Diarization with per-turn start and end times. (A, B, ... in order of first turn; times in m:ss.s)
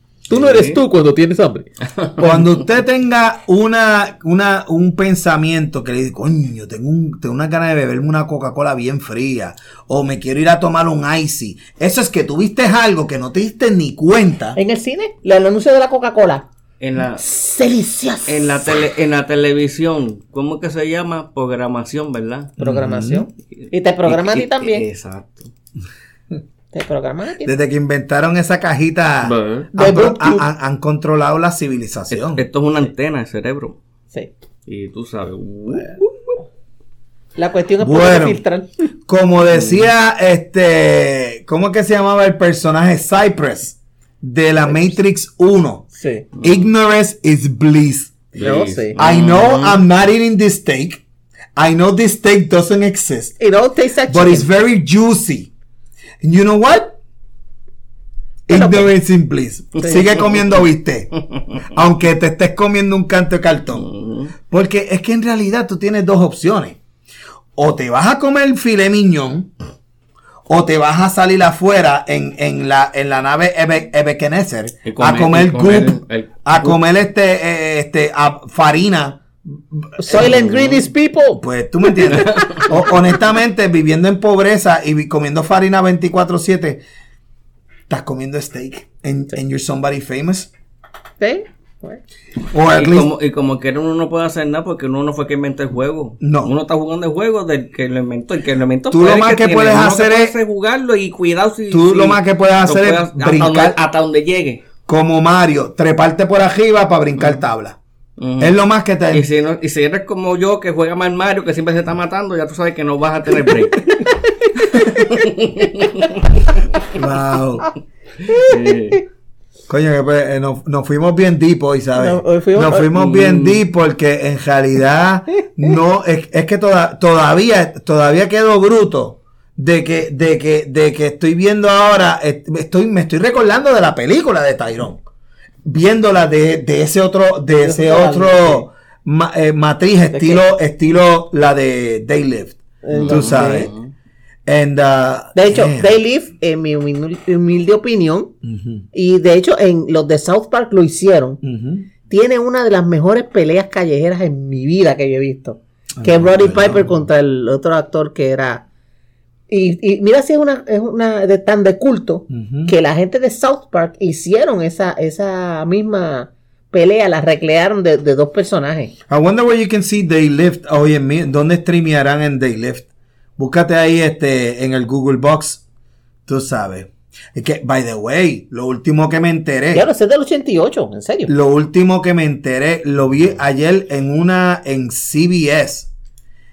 0:00.3-0:01.6 A
0:00.3-0:00.8 B
0:01.8-0:02.6 B
0:02.2-0:14.6 C
0:14.6-0:16.4 A
0:16.8-0:17.2 B
0:17.2-0:18.6 A
0:18.3-0:22.6 B
0:22.6-0:23.2 C
0:22.6-0:24.8 A
0:23.6-0:25.5 B
0:26.7-0:27.5 A
0:27.4-0:32.4 C
0:29.2-0:29.7 B
0:29.7-0:30.5 A
0:32.1-0:33.8 B
0:34.7-0:36.1 B
0:37.4-0:38.9 A
0:37.8-0:38.4 C
0:39.1-0:45.9 C
0:39.5-0:39.9 B
0:44.7-0:44.9 A
0:46.0-0:46.3 A
0:46.4-0:46.7 B
0:46.4-0:48.4 C
0:48.4-0:49.8 B
0:48.4-0:49.0 A
0:49.0-0:51.0 C
0:51.6-0:53.4 C
0:53.4-0:54.5 A
0:54.1-0:55.5 C
0:56.2-0:57.0 C
0:58.5-1:03.9 C
0:58.5-0:58.9 A
0:59.8-1:00.1 A
1:00.3-1:00.6 B
1:01.4-1:01.6 B
1:03.8-1:04.3 B
1:04.5-1:06.8 C
1:07.6-1:09.5 C
1:10.5-1:20.5 C
1:14.8-1:16.8 B
1:20.0-1:22.9 A
1:20.1-1:20.8 B
1:21.4-1:26.8 C
1:22.1-1:22.6 B
1:27.9-1:30.5 C
1:31.2-1:32.0 A
1:32.5-1:33.1 C
1:32.7-1:44.6 B
1:36.2-1:36.5 C
1:38.9-1:40.3 C
1:41.7-1:43.8 C
1:44.9-1:47.8 C
1:48.2-1:48.5 B
1:48.4-1:49.2 C
1:49.1-1:54.1 B
1:53.9-1:56.1 A
1:54.6-1:56.1 B
1:56.8-1:57.7 C
1:58.2-1:59.0 B
1:58.2-1:59.0 A
1:59.7-2:15.0 C
2:02.0-2:02.9 A
2:02.9-2:03.6 B
2:15.6-2:23.7 C
2:17.6-2:18.6 A
2:20.1-2:20.4 A
2:22.8-2:23.7 A
2:22.9-2:23.9 B
2:24.4-2:25.9 C
2:25.4-2:28.3 A
2:28.4-2:28.9 C
2:28.9-2:31.4 A
2:31.4-2:31.9 C
2:32.1-2:38.6 A
2:36.0-2:36.9 C
2:39.5-2:48.9 A
2:42.3-2:42.7 C
2:49.1-2:55.6 C
2:56.3-2:59.8 C
2:59.7-3:01.3 A
3:01.3-3:05.9 C